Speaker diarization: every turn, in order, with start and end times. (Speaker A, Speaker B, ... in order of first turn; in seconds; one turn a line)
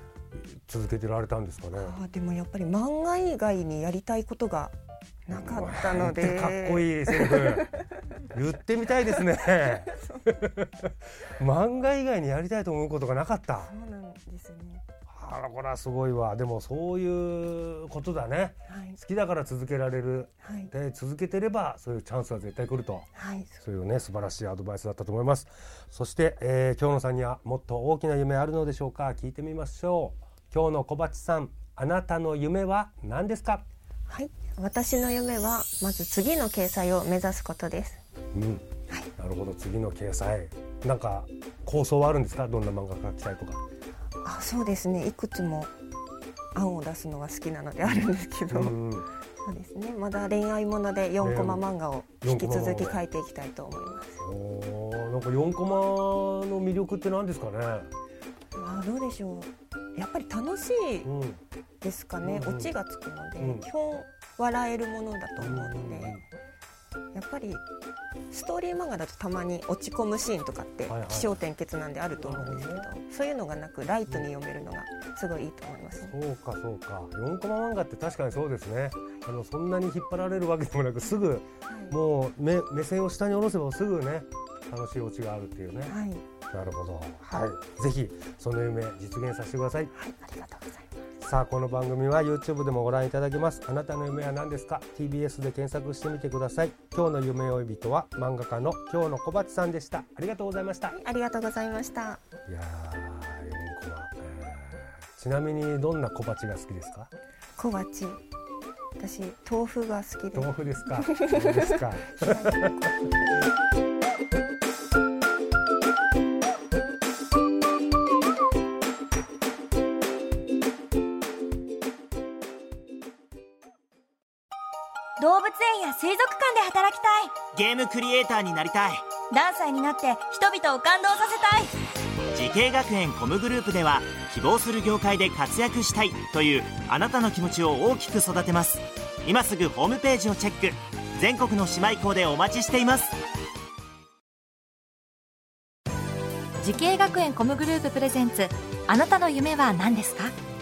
Speaker A: 0.3-2.0
Speaker B: 1.7-7.8
Speaker A: 5.3-13.7
Speaker B: 9.8-10.3
Speaker B: 13.6-14.8
Speaker A: 15.1-23.1
Speaker B: 18.7-19.0
Speaker B: 20.4-20.7
Speaker B: 23.1-23.6
Speaker A: 23.6-33.6
Speaker B: 34.1-38.0
Speaker A: 38.3-43.6
Speaker B: 44.2-45.7
Speaker B: 46.5-48.8
Speaker A: 48.5-49.1
Speaker B: 49.4-54.2
Speaker A: 51.2-51.7
Speaker A: 52.2-53.0
Speaker A: 54.2-57.9
Speaker B: 58.5-61.1
Speaker A: 61.0-61.4
Speaker B: 61.8-66.2
Speaker A: 62.2-62.7
Speaker A: 63.4-63.7
Speaker A: 65.4-66.3
Speaker B: 67.1-67.6
Speaker B: 68.3-76.2
Speaker A: 70.9-71.3
Speaker A: 72.2-72.9
Speaker A: 76.0-86.0
Speaker B: 81.7-82.0
Speaker B: 85.8-86.3
Speaker A: 86.5-89.9
Speaker B: 89.9-90.9
Speaker A: 91.2-101.0
Speaker B: 100.9-102.2
Speaker A: 102.5-107.1
Speaker B: 107.6-108.2
Speaker B: 109.0-113.0
Speaker A: 110.3-112.9
Speaker C: 125.2-127.4
Speaker D: 127.5-129.1
Speaker C: 129.3-131.7
Speaker D: 132.3-143.2
Speaker E: 146.6-150.3